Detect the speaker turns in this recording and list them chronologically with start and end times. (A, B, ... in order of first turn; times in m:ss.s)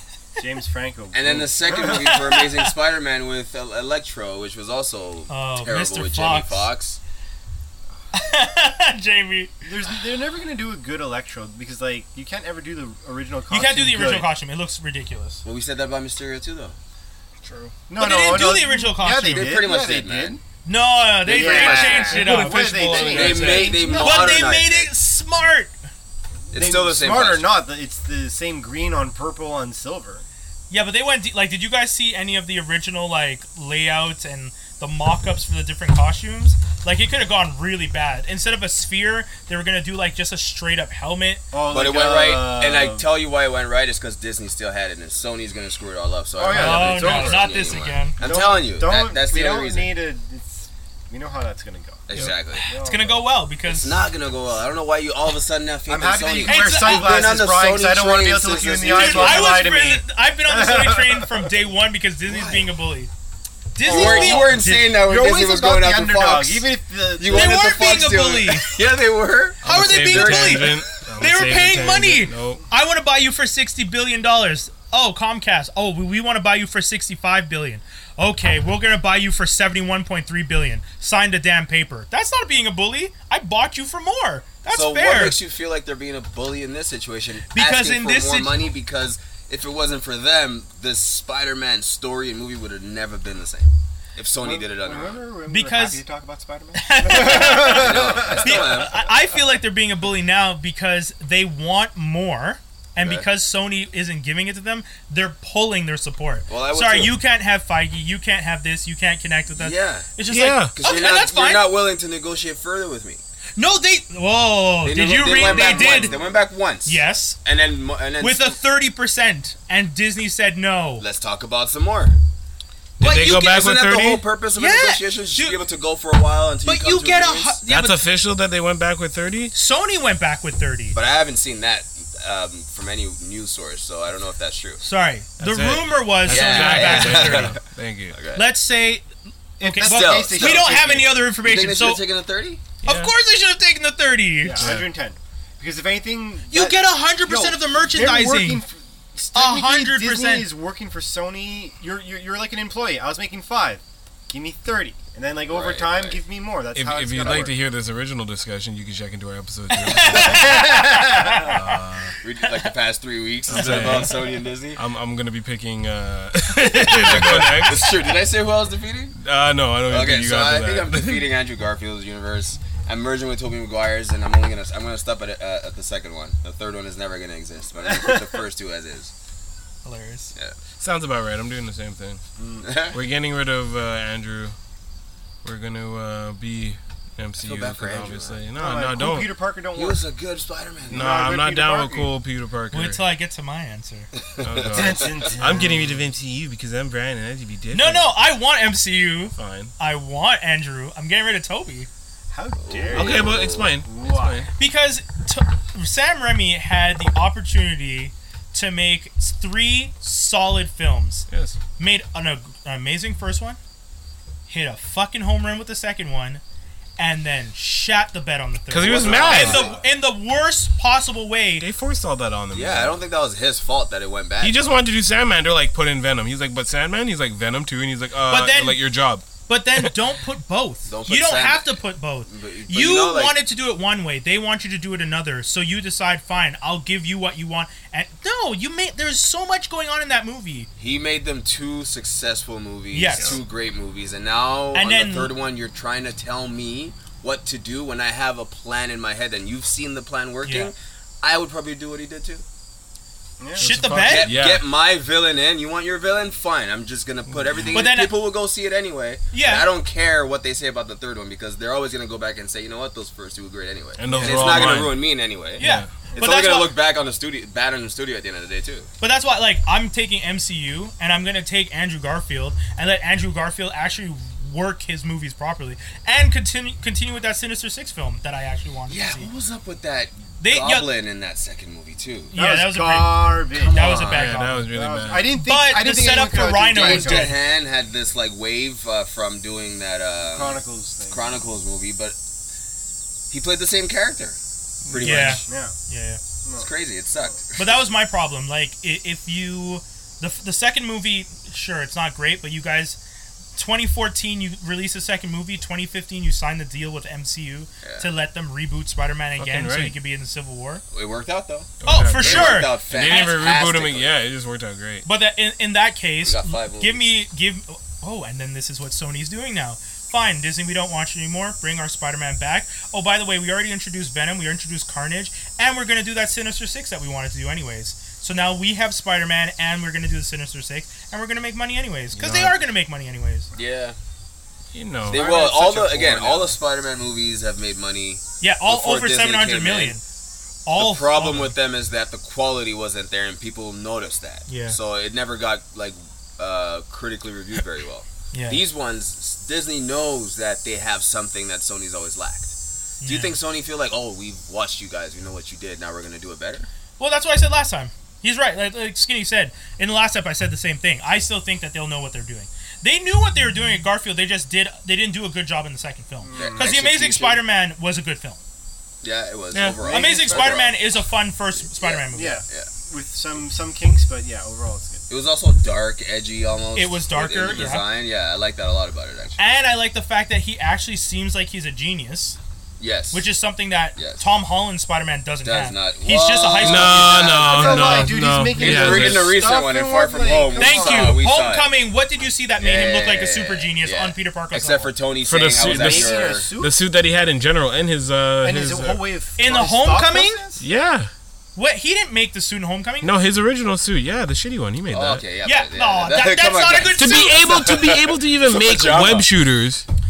0:00.4-0:02.1 A
0:01.1-0:07.0 B
0:01.8-0:02.7 C
0:05.3-0:06.7 C
0:08.1-0:09.5 C
0:09.6-0:14.3 A
0:13.5-0:15.4 C
0:15.4-0:16.8 B
0:17.4-0:17.7 D
0:17.9-0:20.4 A
0:18.0-0:19.6 C
0:19.3-0:20.4 B
0:20.6-0:25.7 C
0:21.2-0:22.3 B
0:21.3-0:24.5 A
0:22.1-0:23.9 D
0:22.9-0:24.9 B
0:26.5-0:27.5 B
0:26.5-0:30.2 A
0:30.7-0:41.4 C
0:41.5-0:43.1 A
0:41.7-0:49.9 B
0:46.4-0:47.5 A
0:46.5-0:48.2 C
0:48.2-0:52.0 A
0:52.1-0:52.7 B
0:52.6-0:54.0 C
0:52.6-0:53.3 A
0:53.6-0:59.6 B
0:55.9-1:01.5 A
0:56.4-0:57.2 C
0:58.9-1:03.1 C
1:02.3-1:02.7 B
1:03.8-1:04.9 C
1:03.8-1:07.8 A
1:03.8-1:06.7 B
1:07.2-1:10.8 B
1:07.3-1:08.7 C
1:09.6-1:12.6 D
1:09.6-1:25.4 C
1:24.7-1:35.2 B
1:27.5-1:28.6 C
1:34.4-1:38.9 A
1:35.5-1:36.0 C
1:36.8-1:51.7 C
1:37.1-1:39.1 B
1:43.0-1:43.3 B
1:46.5-1:47.2 B
1:49.5-1:50.1 B
1:50.3-1:50.7 D
1:50.7-1:53.2 B
1:53.6-1:56.2 C
1:54.8-1:58.6 B
1:55.3-1:56.3 A
1:56.8-1:57.4 C
1:58.2-2:01.0 C
2:01.0-2:02.2 B
2:03.0-2:04.2 D
2:03.0-2:07.6 B
2:04.6-2:05.6 C
2:06.6-2:08.1 C
2:07.7-2:09.5 D
2:09.5-2:11.0 C
2:10.9-2:14.8 B
2:14.8-2:17.6 C
2:15.4-2:18.2 D
2:16.3-2:17.6 B
2:18.1-2:18.5 B
2:18.3-2:19.1 C
2:19.6-2:21.1 A
2:19.6-2:22.0 C
2:19.8-2:22.6 B
2:22.8-2:24.6 C
2:22.8-2:23.1 D
2:24.4-2:37.6 A
2:24.6-2:24.9 D
2:26.5-2:28.6 C
2:29.3-2:30.5 C
2:35.5-2:36.2 B
2:36.8-2:40.8 D
2:39.7-2:41.7 C
2:40.0-2:40.6 B
2:40.2-2:41.5 A
2:41.4-2:42.1 D
2:42.2-2:44.8 B
2:43.5-2:44.2 D
2:43.6-2:43.9 C
2:44.8-2:48.2 D
2:46.6-2:49.2 B
2:49.2-2:51.3 D
2:49.9-2:59.1 B
2:57.8-2:58.4 A
2:59.8-3:00.3 C
3:00.8-3:02.2 D
3:02.4-3:02.7 A
3:02.6-3:03.0 B
3:02.9-3:04.6 D
3:05.4-3:09.3 D
3:07.4-3:08.4 B
3:08.6-3:10.0 A
3:09.7-3:11.1 B
3:10.9-3:12.1 A
3:10.9-3:13.0 D
3:12.7-3:14.1 C
3:14.2-3:15.4 B
3:14.4-3:18.2 D
3:14.7-3:16.0 A
3:17.7-3:21.9 C
3:19.4-3:19.7 D
3:22.3-3:24.5 A
3:22.6-3:23.7 B
3:22.9-3:24.5 D
3:24.6-3:31.3 C
3:31.3-3:31.6 D
3:31.8-3:33.6 C
3:34.5-3:36.4 C
3:37.0-3:41.7 C
3:38.7-3:39.7 D
3:38.8-3:39.8 B
3:39.1-3:39.8 A
3:41.6-3:43.0 D
3:42.5-3:44.7 B
3:44.4-3:49.9 D
3:48.3-3:48.8 C
3:49.5-4:00.7 C
3:50.9-3:53.4 B
4:00.8-4:12.4 B
4:02.9-4:03.4 C
4:04.7-4:05.3 C
4:10.4-4:10.7 C
4:13.4-4:13.7 A
4:13.6-4:14.6 D
4:13.6-4:14.4 C
4:14.0-4:28.9 B
4:17.3-4:17.8 D
4:17.7-4:18.1 C
4:19.3-4:19.7 C
4:24.0-4:25.0 D
4:24.1-4:24.8 C
4:25.6-4:25.9 D
4:25.6-4:26.8 C
4:29.0-4:39.3 C
4:38.9-4:42.4 B
4:40.4-4:40.9 C
4:42.3-4:44.7 C
4:42.3-4:47.3 A
4:43.5-4:44.4 B
4:44.0-4:45.3 D
4:45.3-4:47.4 C
4:46.7-4:52.2 B
4:50.2-4:51.4 A
4:53.3-4:54.4 B
4:54.9-4:55.4 D
4:54.9-4:55.4 B
4:55.0-4:56.2 C
4:55.5-4:55.8 A
4:56.4-4:57.4 A
4:56.6-4:57.8 B
4:57.6-5:03.0 C
5:03.6-5:10.8 C
5:07.8-5:08.1 B
5:09.4-5:10.0 D
5:10.9-5:14.2 B
5:11.8-5:15.1 D
5:11.8-5:13.4 C
5:15.0-5:33.5 C
5:16.2-5:17.1 B
5:32.2-5:32.6 D
5:33.5-5:34.0 B
5:34.7-5:36.6 D
5:35.1-5:40.0 B
5:35.1-5:35.8 A
5:38.4-5:40.0 C
5:40.7-5:41.6 C
5:40.8-5:52.5 B
5:44.5-5:44.8 C
5:48.3-5:48.6 C
5:53.0-5:53.4 C
5:53.0-5:56.7 B
5:57.0-6:08.4 C
6:06.2-6:06.7 A
6:06.3-6:07.4 B
6:09.0-6:10.8 B
6:09.5-6:09.8 D
6:09.8-6:10.6 A
6:09.8-6:12.4 C
6:11.6-6:12.7 B
6:12.1-6:15.0 A
6:15.1-6:19.4 B
6:16.8-6:17.9 C
6:19.4-6:22.4 C
6:22.8-6:23.3 B
6:23.1-6:27.4 C
6:24.0-6:24.2 B
6:25.4-6:31.8 B
6:26.6-6:29.4 D
6:27.1-6:31.2 A
6:30.6-6:34.9 C
6:32.6-6:36.5 B
6:35.3-6:39.0 D
6:35.4-6:36.8 A
6:38.4-6:40.6 A
6:39.4-6:40.4 C
6:40.6-6:41.1 D
6:41.6-6:43.1 C
6:43.0-6:45.2 D
6:44.9-6:49.3 B
6:45.4-6:47.6 C
6:47.0-6:49.8 D